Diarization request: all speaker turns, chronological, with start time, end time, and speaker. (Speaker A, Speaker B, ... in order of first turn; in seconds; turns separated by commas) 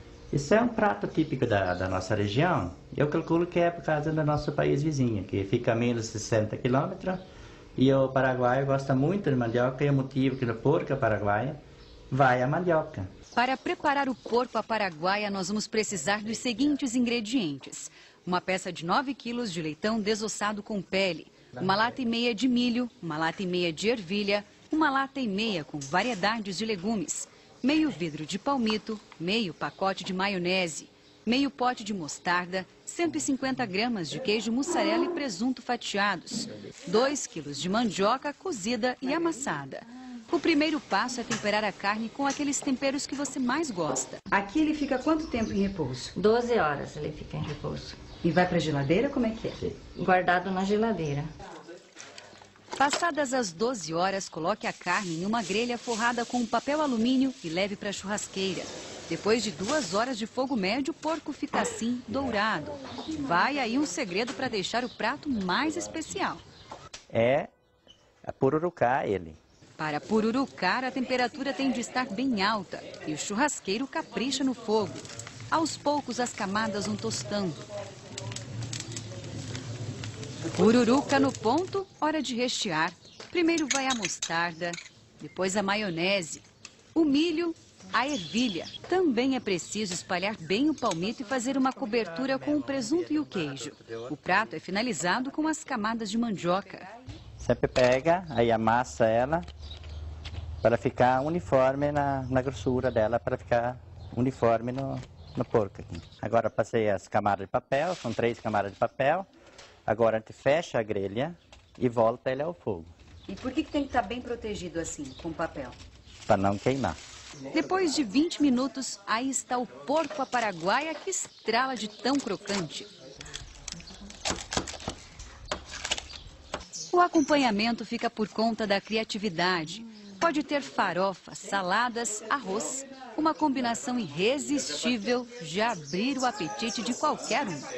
Speaker A: 0.3-7.2, Speaker A: 7.8-11.6, Speaker A: 12.1-13.1, Speaker B: 13.3-46.1, Speaker C: 46.1-48.0, Speaker B: 48.2-49.6, Speaker C: 49.9-51.3, Speaker B: 52.8-66.4, Speaker A: 67.1-67.5, Speaker A: 68.2-69.4, Speaker B: 69.8-77.6, Speaker B: 80.5-96.9, Speaker A: 91.3-94.2, Speaker A: 97.4-99.5, Speaker A: 100.6-109.3, Speaker A: 109.8-112.9, Speaker B: 113.3-115.8, Speaker A: 116.3-117.0, Speaker B: 117.5-122.9, Speaker B: 126.9-137.7